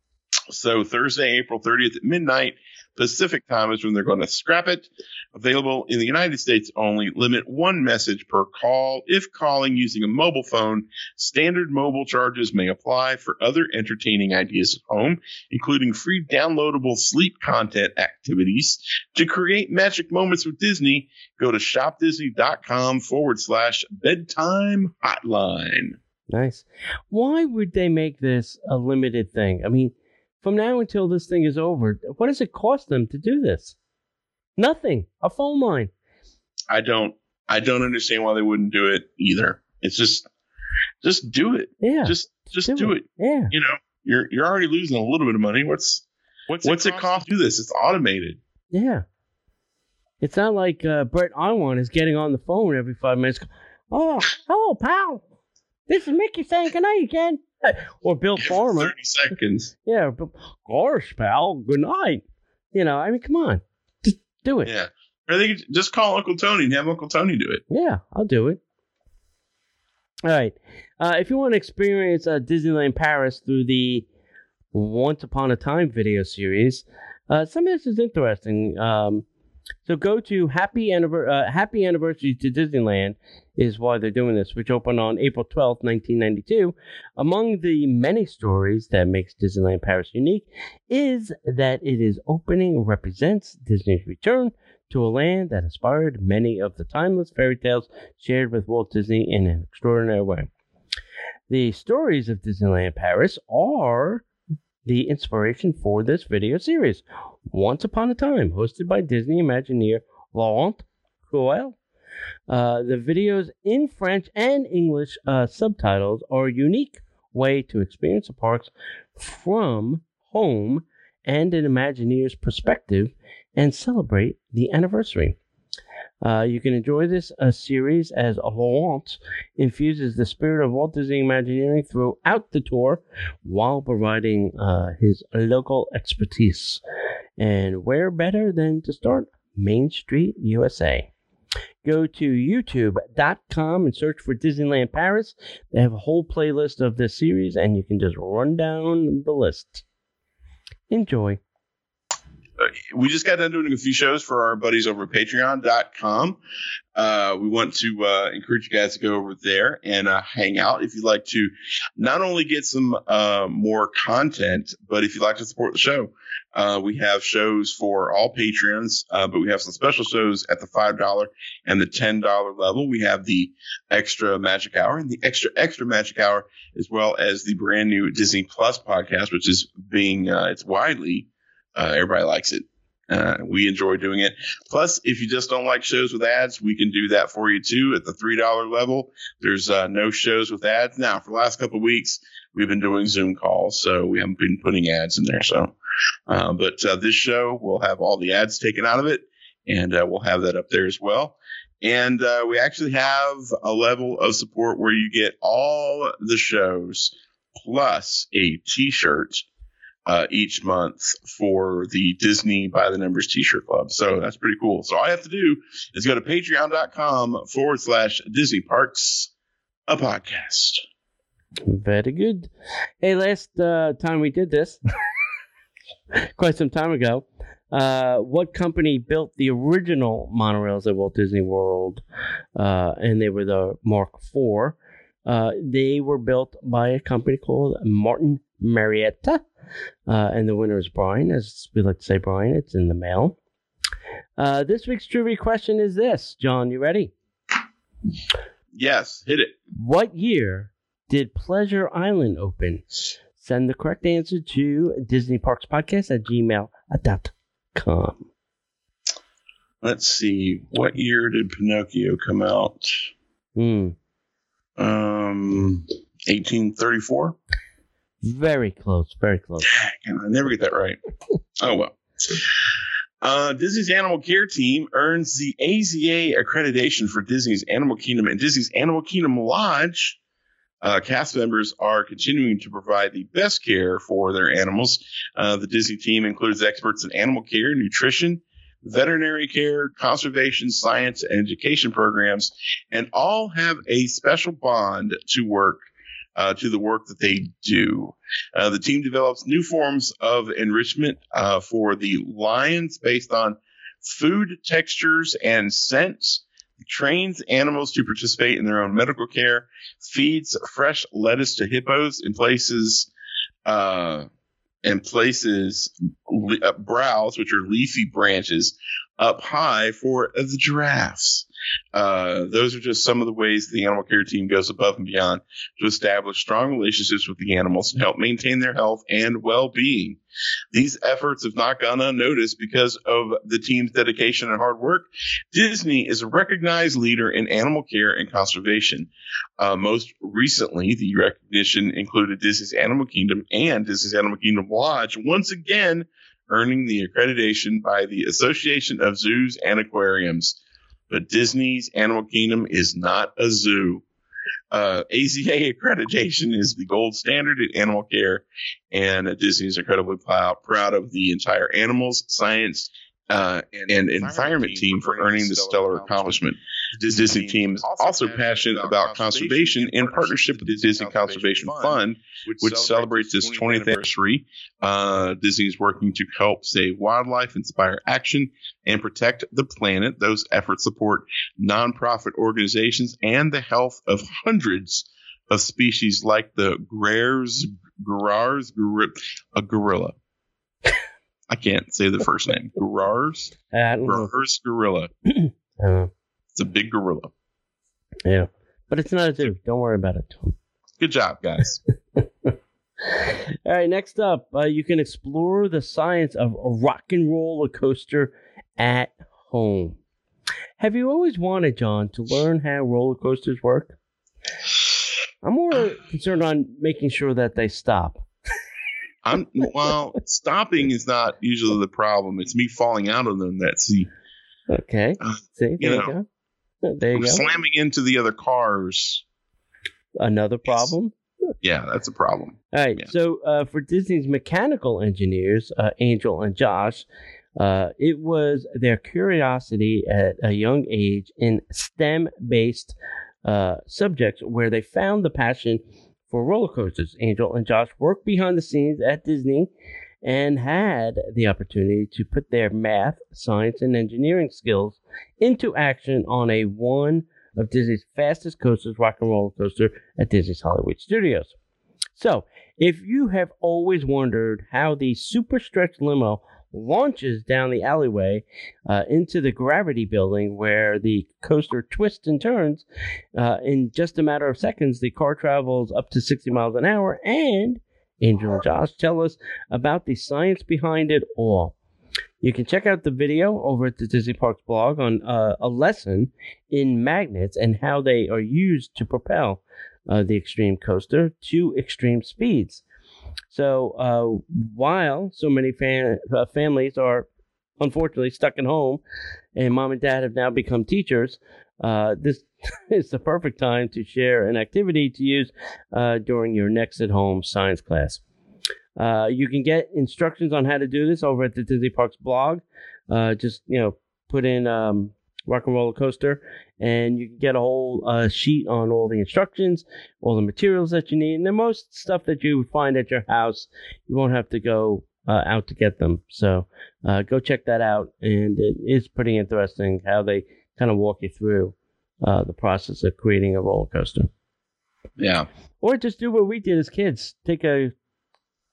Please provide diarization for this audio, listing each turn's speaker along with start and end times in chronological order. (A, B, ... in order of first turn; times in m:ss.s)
0:00.5-0:26.0 A
0:26.3-0:33.7 B
0:34.6-0:35.9 B
0:36.7-0:40.2 A
0:41.0-0:46.0 A
0:41.8-0:43.5 B
0:46.5-0:47.2 C
0:46.6-0:48.4 A
0:48.7-0:49.0 B
0:50.2-0:55.2 B
0:55.9-0:58.9 B
0:58.4-0:59.7 A
0:59.8-1:04.7 B
1:04.6-1:07.6 A
1:07.7-1:08.6 B
1:10.2-1:14.0 B
1:14.7-1:19.2 B
1:19.8-1:40.5 B
1:41.5-1:44.2 B
1:44.8-1:51.8 B
1:52.5-2:05.4 B
2:06.2-2:16.8 B
2:17.4-2:21.1 B
2:21.8-2:29.8 B
2:30.9-2:31.4 B
2:32.6-2:36.4 A
2:37.0-3:15.7 A
3:16.3-3:29.4 A
3:30.1-3:39.3 A
3:39.9-3:40.8 A
3:41.6-3:42.5 B
3:43.0-3:44.8 B
3:46.4-3:52.0 B
3:52.6-3:59.4 B
4:00.1-4:03.4 B
4:04.4-4:07.1 B
4:08.7-4:09.5 A
4:09.7-4:12.8 B
4:13.4-4:18.2 B
4:19.8-4:22.8 A
4:23.6-4:23.9 B
4:24.8-4:27.4 A
4:28.2-4:29.7 B
4:29.7-4:31.0 A
4:31.6-4:32.4 A
4:33.2-4:40.1 A
4:40.8-4:55.8 A
4:56.4-5:13.1 A
5:13.6-5:14.2 A
5:14.8-5:30.2 A
5:30.7-5:39.1 A
5:39.6-5:50.6 A
5:51.1-5:54.0 A
5:54.7-6:30.1 A
6:03.8-6:06.4 C
6:07.1-6:13.9 C
6:31.5-6:33.5 A
6:33.7-6:34.3 B
6:34.0-6:35.1 A
6:35.3-6:36.1 B
6:36.6-6:37.3 A
6:38.2-6:40.6 B
6:41.0-6:41.8 A
6:42.2-6:42.5 B
6:43.1-6:50.0 B
6:50.8-6:53.9 B
6:55.4-6:58.2 B
6:59.2-7:04.1 A
7:04.7-7:06.2 B
7:05.2-7:06.1 A
7:06.8-7:07.4 B
7:07.1-7:09.2 A
7:10.2-7:11.1 B
7:11.6-7:13.1 A
7:12.7-7:17.0 B
7:17.6-7:29.7 B
7:30.2-7:41.5 B
7:42.2-7:52.8 B
7:53.3-8:01.7 B
8:02.4-8:12.8 B
8:13.5-8:17.3 B
8:17.8-8:19.0 B
8:19.5-8:28.2 B
8:29.0-8:54.3 B
8:55.2-8:55.4 A
8:55.8-8:57.9 B